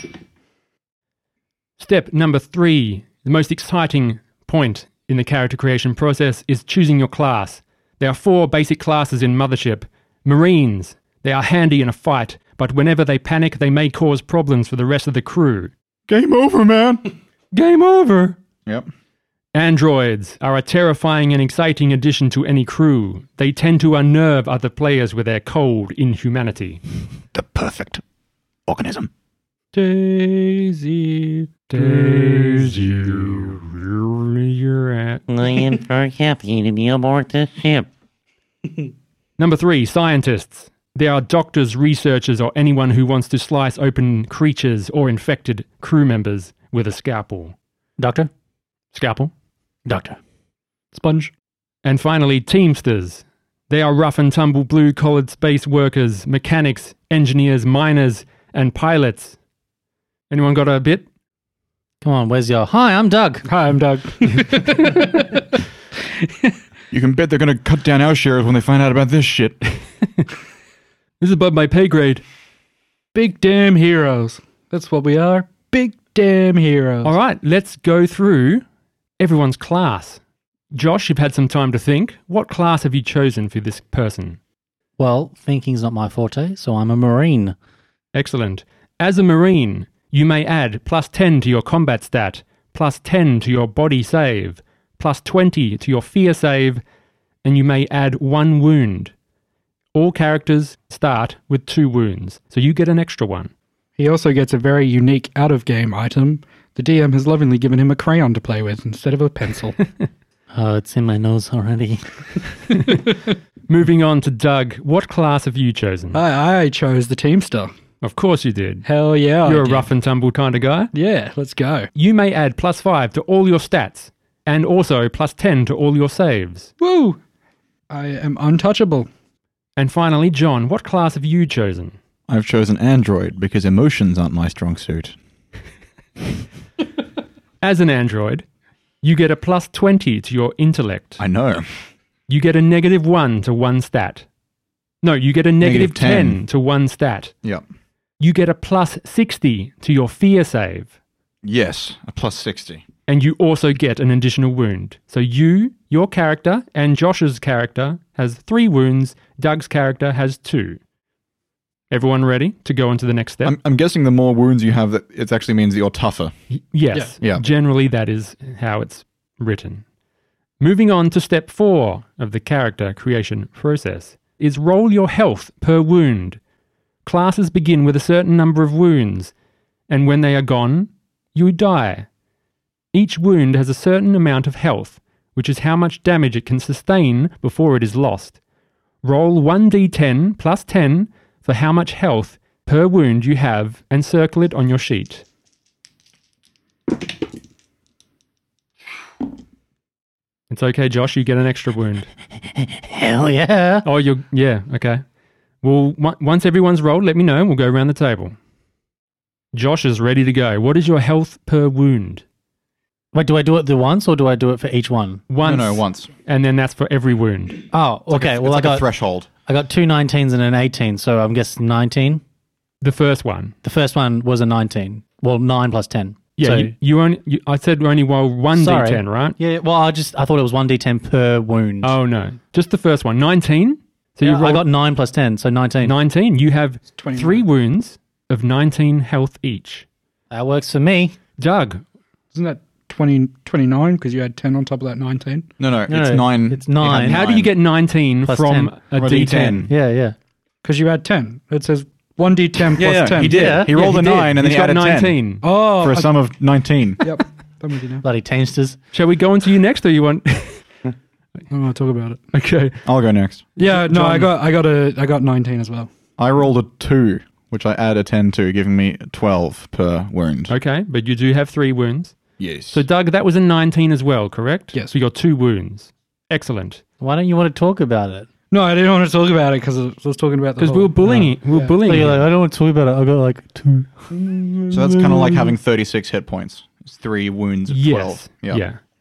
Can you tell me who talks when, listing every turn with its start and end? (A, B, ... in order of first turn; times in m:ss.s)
0:01.8-0:15.7 A
0:16.1-0:17.1 B
0:17.5-0:18.4 A
0:19.5-0:26.8 A
0:27.3-0:28.0 B
0:28.7-0:29.1 B
0:29.7-0:32.7 C
0:31.7-0:35.2 A
0:35.3-0:37.9 D
0:39.4-0:47.6 A
0:48.0-0:48.3 E
0:48.9-0:49.3 A
0:49.8-0:50.2 E
0:50.9-0:51.3 C
0:51.8-0:59.4 A
1:00.3-1:01.0 A
1:02.0-1:03.5 E
1:03.4-1:05.4 C
1:06.9-1:09.8 B
1:11.2-1:12.2 A
1:13.1-1:17.1 C
1:17.0-1:18.6 A
1:19.2-1:20.2 A
1:20.7-1:24.4 A
1:25.0-1:27.5 E
1:28.1-1:36.8 A
1:37.4-1:39.1 A
1:39.9-1:43.5 A
1:44.0-1:49.8 C
1:50.5-1:52.2 E
1:52.7-1:53.1 A
1:53.7-1:56.2 A
1:56.1-1:57.7 C
1:58.0-1:58.8 A
1:58.8-1:59.9 C
1:59.4-2:00.9 A
2:00.9-2:01.9 C
2:01.9-2:06.7 A
2:06.8-2:07.2 C
2:07.9-2:09.1 C
2:09.8-2:12.0 A
2:12.3-2:15.1 B
2:17.6-2:18.4 A
2:19.0-2:21.2 A
2:21.2-2:21.7 B
2:22.3-2:24.2 A
2:25.0-2:27.3 A
2:25.6-2:26.4 B
2:28.2-2:30.9 A
2:31.4-2:32.8 B
2:33.1-2:40.8 A
2:41.9-2:43.6 A
2:43.4-2:46.3 B
2:46.5-2:49.8 A
2:50.6-2:56.4 A
2:57.0-2:59.3 A
2:59.9-3:02.1 A
3:02.9-3:08.4 A
3:09.0-3:15.2 A
3:20.5-3:22.1 A
3:22.6-3:23.8 E
3:23.8-3:25.0 A
3:25.6-3:28.3 A
3:29.5-3:32.2 A
3:33.1-3:35.2 E
3:35.3-3:37.6 A
3:35.4-3:36.1 B
3:37.7-3:38.8 E
3:38.1-3:39.3 B
3:39.4-3:42.2 E
3:42.8-3:43.5 A
3:43.6-3:46.7 E
3:46.4-3:49.4 A
3:48.5-3:51.9 E
3:51.8-3:54.6 A
3:54.2-3:55.9 E
3:55.8-3:59.8 A
3:57.0-3:57.4 C
4:00.3-4:01.1 E
4:01.4-4:01.8 A
4:02.3-4:05.5 C
4:05.6-4:07.5 B
4:05.9-4:07.2 E
4:07.0-4:09.7 A
4:08.2-4:08.8 E
4:09.0-4:09.7 B
4:09.5-4:10.2 E
4:10.6-4:13.5 C
4:12.7-4:17.0 B
4:13.2-4:13.7 E
4:13.3-4:15.4 A
4:15.4-4:16.1 C
4:17.0-4:18.0 C
4:18.0-4:18.8 E
4:18.9-4:20.6 A
4:21.5-4:22.2 C
4:22.3-4:22.8 A
4:22.8-4:23.5 B
4:23.6-4:25.9 C
4:23.6-4:24.3 A
4:26.2-4:30.5 B
4:30.5-4:32.2 A
4:32.4-4:32.8 B
4:32.7-4:36.8 A
4:37.0-4:38.3 E
4:38.5-4:41.0 C
4:40.6-4:42.3 A
4:41.0-4:44.4 E
4:41.5-4:41.8 C
4:44.1-4:45.4 C
4:44.7-4:48.6 B
4:45.0-4:45.2 E
4:47.7-4:48.8 A